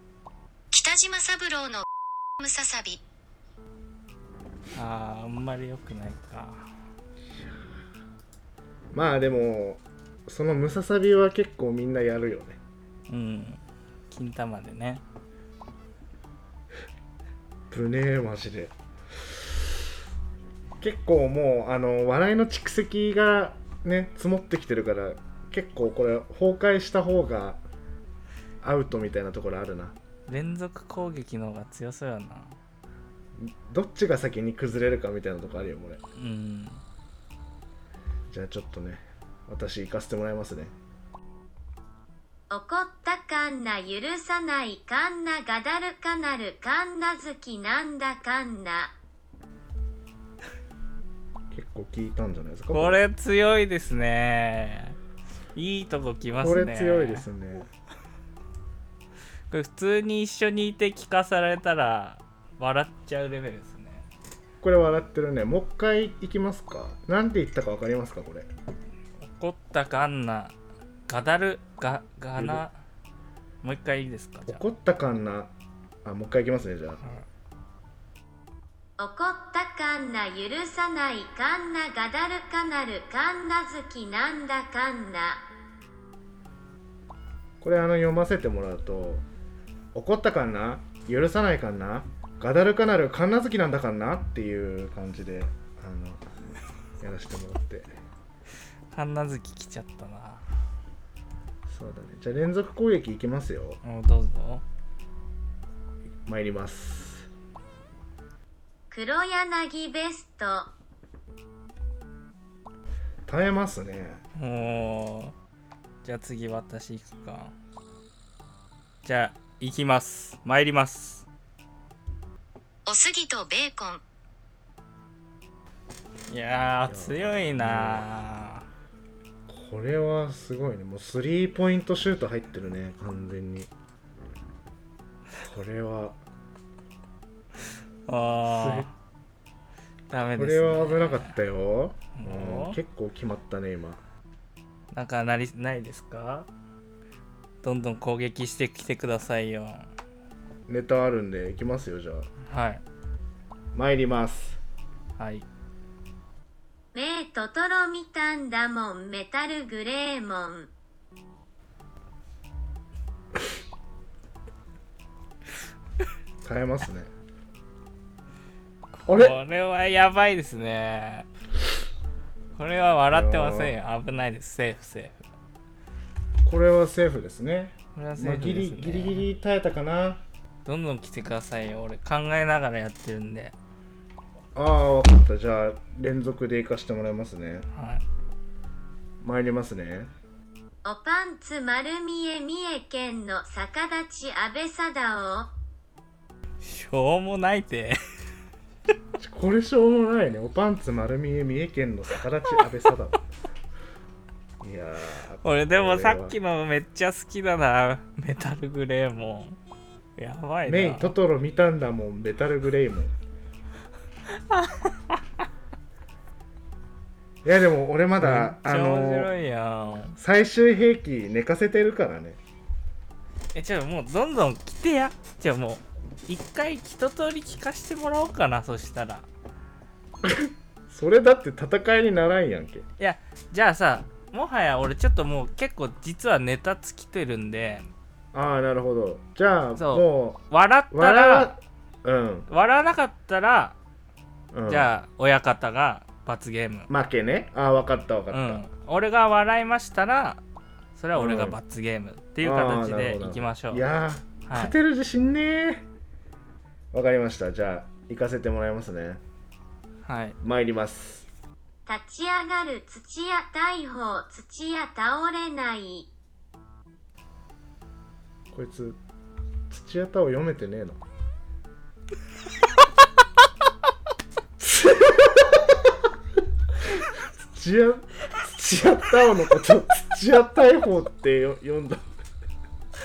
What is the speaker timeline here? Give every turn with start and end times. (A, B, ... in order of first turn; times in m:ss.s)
0:00.7-0:01.8 A
0:02.4-0:03.0 A
0:04.7-0:06.7 B
0:07.3-0:07.7 C
0:08.9-0:12.6 C
0:13.1-0:15.0 B
0:17.7-0:19.7 C
0:20.8-0:27.6 C
0:28.6-0:30.0 C
0:30.3-0:32.6 B
0:33.4-0:36.0 C
0:36.2-0:36.8 B
0:38.3-0:40.7 C
0:42.5-0:48.9 D
0:51.5-0:53.0 C
0:52.7-0:55.0 B
0:55.5-0:57.3 B
0:56.4-0:57.7 C
0:59.5-1:04.0 B
1:04.6-1:08.5 C
1:09.2-1:10.5 B
1:11.1-1:12.8 B
1:12.4-1:12.6 C
1:13.6-1:14.6 B
1:14.5-1:15.5 C
1:16.0-1:17.0 C
1:19.0-1:25.4 D
1:27.6-1:29.2 C
1:29.9-1:36.2 C
1:37.0-1:37.9 C
1:38.9-1:40.4 B
1:41.7-1:43.8 C
1:43.8-1:44.6 B
1:46.2-1:47.3 C
1:48.9-1:50.7 D
1:53.2-1:54.2 C
1:54.3-1:55.3 B
1:56.0-1:57.5 B
1:59.0-2:01.2 B
2:02.8-2:04.0 A
2:06.3-2:08.6 B
2:06.8-2:08.1 C
2:09.5-2:13.7 C
2:15.4-2:16.2 C
2:18.1-2:18.9 B
2:18.4-2:18.9 C
2:20.1-2:21.4 B
2:20.3-2:24.0 C
2:22.1-2:22.8 B
2:24.9-2:26.5 B
2:27.6-2:29.9 B
2:30.7-2:32.3 C
2:32.4-2:32.8 B
2:33.7-2:34.6 C
2:35.2-2:35.4 B
2:36.9-2:40.7 D
2:46.4-2:47.1 C
2:49.0-2:51.3 B
2:49.1-2:49.4 C
2:52.6-2:55.2 B
2:53.1-2:53.7 C
2:56.4-3:00.2 C
2:58.0-2:59.2 B
3:00.6-3:03.5 B
3:04.5-3:07.7 C
3:07.7-3:08.0 B
3:09.2-3:10.1 C
3:10.8-3:15.5 D
3:16.6-3:18.0 B
3:19.2-3:23.2 C
3:24.6-3:26.4 C
3:25.4-3:29.6 B
3:30.2-3:31.1 B
3:30.6-3:33.1 C
3:34.3-3:35.2 B
3:37.4-3:39.3 C
3:38.2-3:40.2 B
3:40.2-3:42.4 C
3:43.5-3:49.3 B
3:50.2-3:52.8 C
3:53.0-3:57.9 B
3:58.3-4:02.5 C
3:59.8-4:01.5 B
4:02.5-4:03.8 B
4:04.5-4:04.9 C
4:04.7-4:06.9 B
4:06.9-4:08.6 C
4:08.3-4:10.4 B
4:11.0-4:13.8 B
4:11.1-4:11.6 C
4:12.4-4:15.8 C
4:14.4-4:14.8 B
4:16.9-4:19.2 C
4:20.0-4:20.4 B
4:20.4-4:21.3 C
4:21.8-4:26.1 D
4:28.5-4:29.0 C
4:29.7-4:31.0 C
4:34.6-4:35.9 C
4:36.8-4:42.0 C